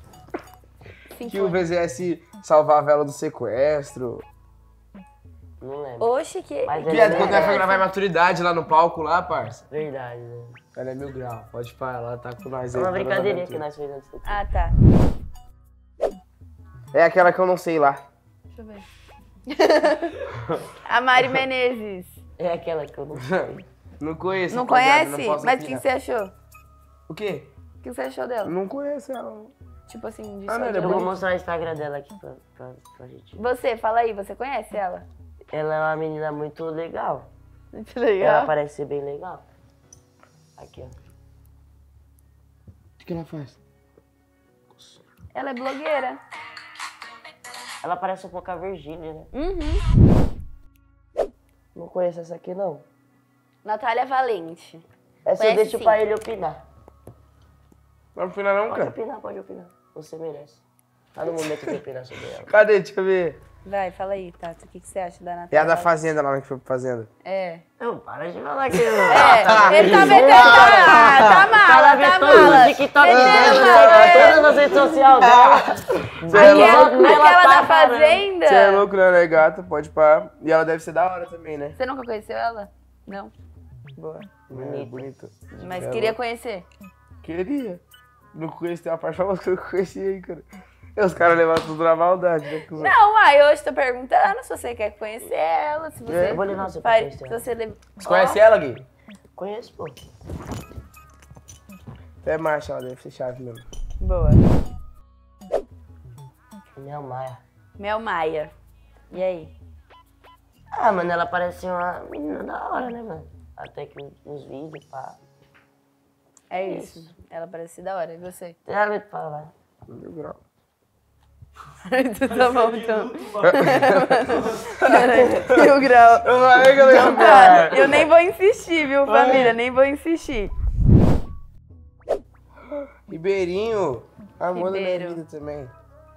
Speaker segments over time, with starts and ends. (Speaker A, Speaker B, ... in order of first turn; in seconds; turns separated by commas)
Speaker A: 1.1-1.6, Speaker B: 1.2-4.3, Speaker C: 5.6-6.1, Speaker A: 6.0-7.9, Speaker C: 6.7-7.6, Speaker B: 6.8-9.6, Speaker C: 9.7-10.6, Speaker B: 10.8-13.6, Speaker C: 12.7-14.4, Speaker A: 14.2-14.8, Speaker B: 16.9-18.0, Speaker A: 18.6-18.8, Speaker A: 19.5-20.2, Speaker A: 20.8-22.2, Speaker C: 22.4-23.6, Speaker B: 23.2-25.8, Speaker A: 24.5-26.3, Speaker B: 27.1-27.5, Speaker A: 27.8-28.6, Speaker B: 28.4-29.5, Speaker A: 29.9-31.1, Speaker B: 30.5-31.1, Speaker C: 30.8-33.4, Speaker A: 33.4-35.1, Speaker C: 35.5-37.3, Speaker A: 37.7-38.5, Speaker C: 38.2-39.5, Speaker C: 40.6-41.0, Speaker B: 43.0-43.6, Speaker B: 44.7-45.0, Speaker A: 45.3-46.2, Speaker C: 47.8-49.3, Speaker A: 49.3-49.8, Speaker C: 51.8-52.8, Speaker A: 53.6-54.8, Speaker C: 55.2-56.6, Speaker A: 55.4-56.0, Speaker B: 58.1-59.0, Speaker C: 58.7-60.6, Speaker C: 61.1-62.5, Speaker B: 62.5-63.4, Speaker A: 63.6-65.9, Speaker B: 65.5-67.1, Speaker A: 67.2-67.6, Speaker C: 67.8-78.3, Speaker B: 68.7-71.5, Speaker A: 69.1-74.9, Speaker B: 72.3-77.3, Speaker A: 76.3-78.9, Speaker B: 78.5-81.8, Speaker A: 81.8-83.3, Speaker A: 84.0-84.3, Speaker B: 84.5-86.2, Speaker C: 84.5-85.1, Speaker A: 85.5-86.7, Speaker B: 87.2-87.8, Speaker B: 88.3-93.0, Speaker A: 92.8-98.4, Speaker C: 96.1-97.4, Speaker B: 98.0-98.9, Speaker C: 99.4-100.0, Speaker B: 102.2-103.7, Speaker A: 104.0-104.4, Speaker C: 106.8-107.4, Speaker A: 107.8-108.5, Speaker A: 109.1-109.5, Speaker C: 110.7-115.2, Speaker A: 116.5-118.6, Speaker C: 116.5-117.1, Speaker C: 118.7-119.5, Speaker B: 119.9-120.4, Speaker A: 121.9-130.5, Speaker B: 123.4-128.0, Speaker C: 126.9-127.9, Speaker B: 129.1-129.6, Speaker B: 132.7-135.7, Speaker A: 134.5-135.2